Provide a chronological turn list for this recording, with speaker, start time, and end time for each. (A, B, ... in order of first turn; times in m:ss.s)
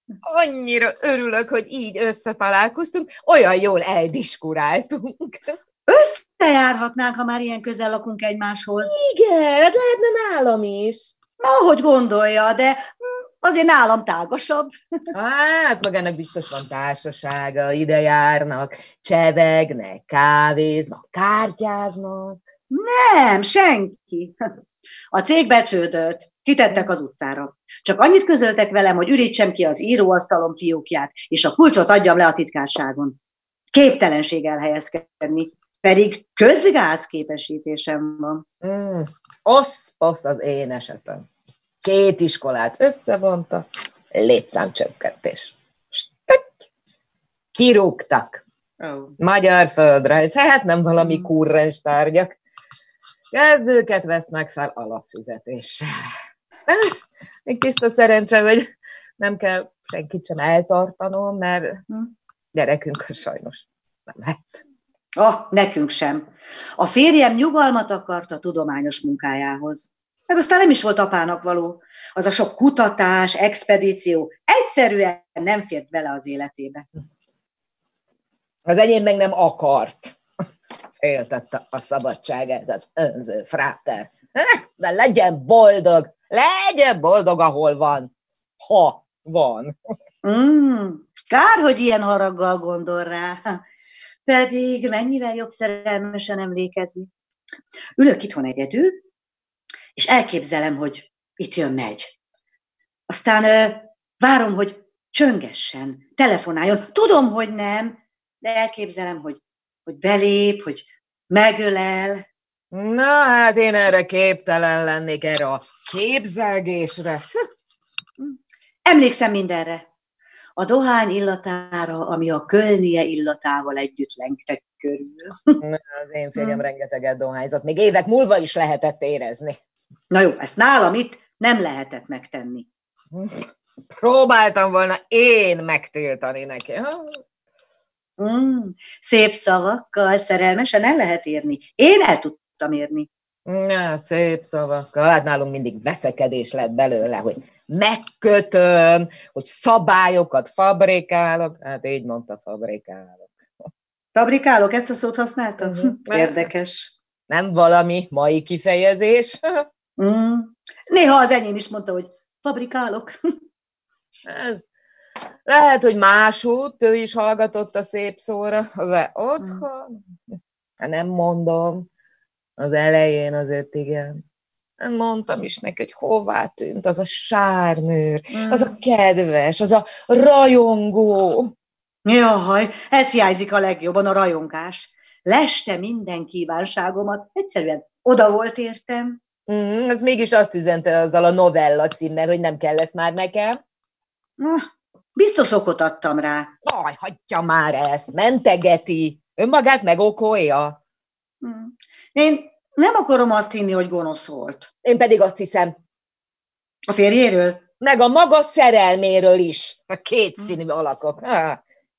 0:00.2-0:05.6 A
0:05.9-0:08.9 B
0:08.8-0:11.1 A
0:11.4-0:12.8 B
0:13.4-0:14.7 B
0:15.1-0:22.4 A
0:22.7-0:24.4 B
0:25.1-0:33.2 B
0:33.7-0:38.4 B
0:38.6-0:41.2 A
0:41.8-0:46.5 A
0:47.5-0:48.4 A
0:48.8-0:49.1 B
0:49.2-0:52.4 A
0:53.3-0:56.1 A
0:56.7-0:58.7 A
0:59.2-1:01.8 A
1:02.5-1:04.6 A
1:05.2-1:06.2 B
1:06.8-1:16.8 B
1:18.6-1:20.2 A
1:21.0-1:29.7 A
1:30.2-1:33.6 B
1:34.2-1:37.1 B
1:38.0-1:39.0 B
1:40.0-1:42.1 B
1:43.1-1:52.2 B
1:52.7-1:57.4 A
1:58.2-1:59.8 B
2:00.6-2:05.6 B
2:05.6-2:09.6 A
2:06.4-2:06.6 B
2:10.1-2:12.7 B
2:13.1-2:13.4 A
2:14.0-2:17.2 A
2:18.2-2:23.1 B
2:23.5-2:33.3 A
2:34.1-2:36.9 B
2:35.6-2:36.4 A
2:37.3-2:39.6 A
2:40.0-2:43.2 B
2:44.2-2:44.6 A
2:45.4-2:50.0 A
2:50.8-2:51.9 A
2:52.6-2:54.2 A
2:54.8-3:01.5 A
2:58.3-2:58.7 B
3:02.0-3:09.2 B
3:09.5-3:13.6 A
3:14.4-3:16.5 B
3:16.6-3:20.8 A
3:21.4-3:24.7 B
3:24.8-3:25.8 A
3:26.9-3:27.6 B
3:27.8-3:31.6 A